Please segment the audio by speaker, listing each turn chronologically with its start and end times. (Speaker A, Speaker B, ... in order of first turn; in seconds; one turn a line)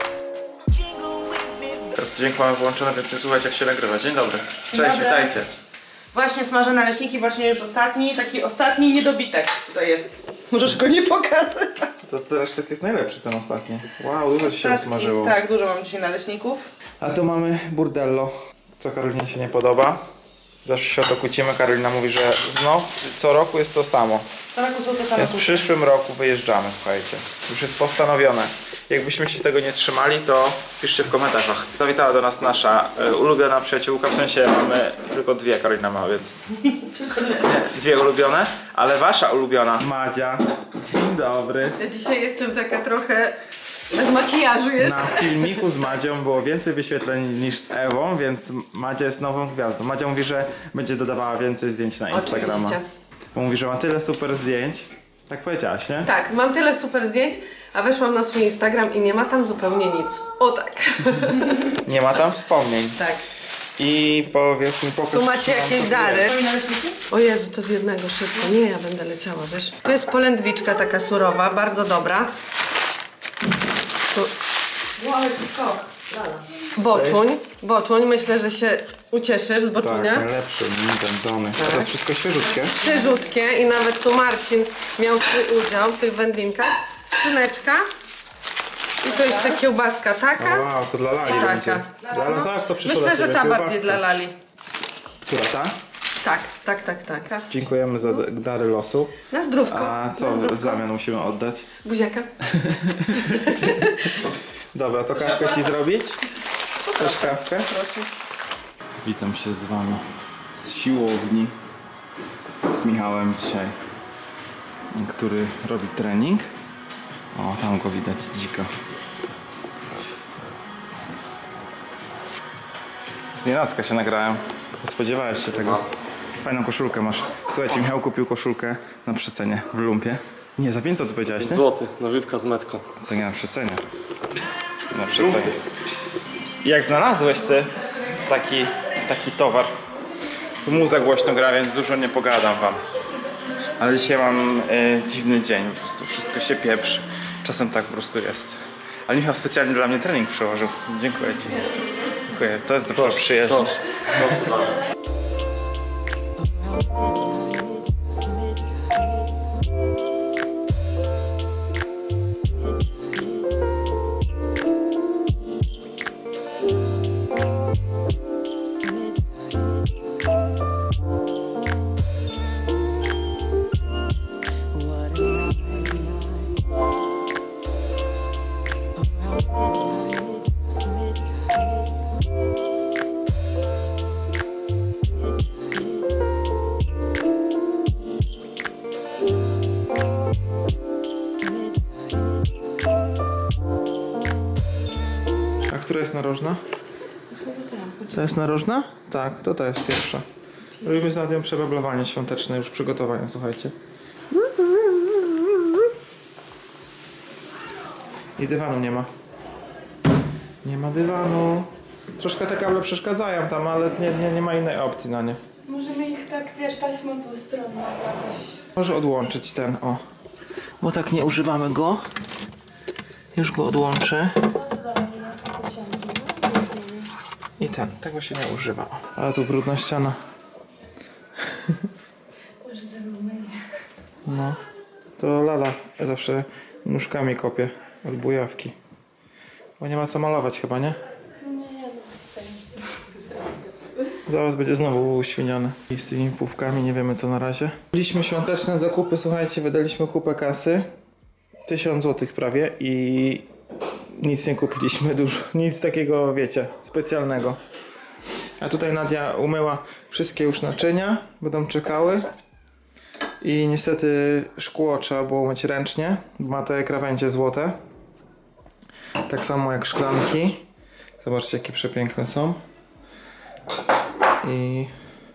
Speaker A: 0.7-1.9
Speaker B: 1.9-5.5
Speaker C: 4.7-5.3
Speaker C: 6.1-11.9
Speaker B: 12.0-15.3
Speaker C: 14.4-16.6
Speaker B: 17.0-20.0
Speaker B: 20.6-24.2
Speaker C: 24.5-25.7
Speaker B: 25.2-36.4
Speaker C: 37.0-37.5
Speaker B: 37.4-41.8
Speaker D: 41.8-43.4
Speaker D: 43.9-45.6
Speaker B: 44.8-52.8
Speaker D: 52.1-52.8
Speaker B: 53.3-56.1
Speaker D: 56.0-61.8
Speaker B: 61.8-63.0
Speaker D: 63.0-63.2
Speaker B: 63.8-66.3
Speaker D: 65.1-66.4
Speaker C: 66.2-67.0
Speaker D: 67.1-72.3
Speaker C: 75.0-76.2
Speaker D: 76.7-80.3
Speaker B: 76.9-77.3
Speaker B: 79.8-82.8
Speaker D: 81.6-81.9
Speaker D: 82.7-87.8
Speaker D: 89.0-90.7
Speaker B: 90.4-94.0
Speaker D: 91.2-94.3
Speaker B: 95.2-95.8
Speaker D: 96.2-97.5
Speaker B: 97.5-101.7
Speaker D: 99.3-100.8
Speaker D: 101.8-102.3
Speaker B: 102.4-103.8
Speaker D: 103.2-104.1
Speaker B: 104.7-106.2
Speaker D: 106.8-108.1
Speaker B: 107.0-107.7
Speaker B: 109.0-111.5
Speaker B: 112.7-113.7
Speaker B: 114.9-116.5
Speaker B: 117.3-118.7
Speaker B: 123.3-125.8
Speaker B: 126.4-131.7
Speaker E: 131.4-132.8
Speaker B: 133.0-133.8
Speaker B: 134.9-135.6
Speaker B: 136.6-137.7
Speaker B: 138.2-139.7
Speaker B: 140.6-142.8
Speaker B: 143.8-151.6
Speaker B: 152.2-154.3
Speaker E: 153.1-153.5
Speaker E: 154.2-154.7
Speaker B: 195.7-196.6
Speaker A: 197.4-198.0
Speaker B: 198.0-200.2
Speaker B: 200.8-203.7
Speaker B: 208.4-209.1
Speaker B: 210.6-215.4
Speaker A: 215.7-218.6
Speaker B: 218.8-220.0
Speaker B: 220.8-222.1
Speaker B: 223.3-224.5
Speaker A: 224.8-227.1
Speaker B: 227.6-230.2
Speaker B: 231.5-231.8
Speaker A: 232.7-233.5
Speaker B: 234.3-234.6
Speaker B: 235.2-238.8
Speaker B: 239.8-241.0
Speaker A: 241.5-242.8
Speaker B: 244.3-250.8
Speaker B: 251.7-253.5
Speaker B: 254.1-257.6
Speaker B: 258.6-262.3
Speaker B: 263.4-267.8
Speaker B: 269.2-270.6
Speaker B: 271.2-272.6
Speaker B: 274.4-274.9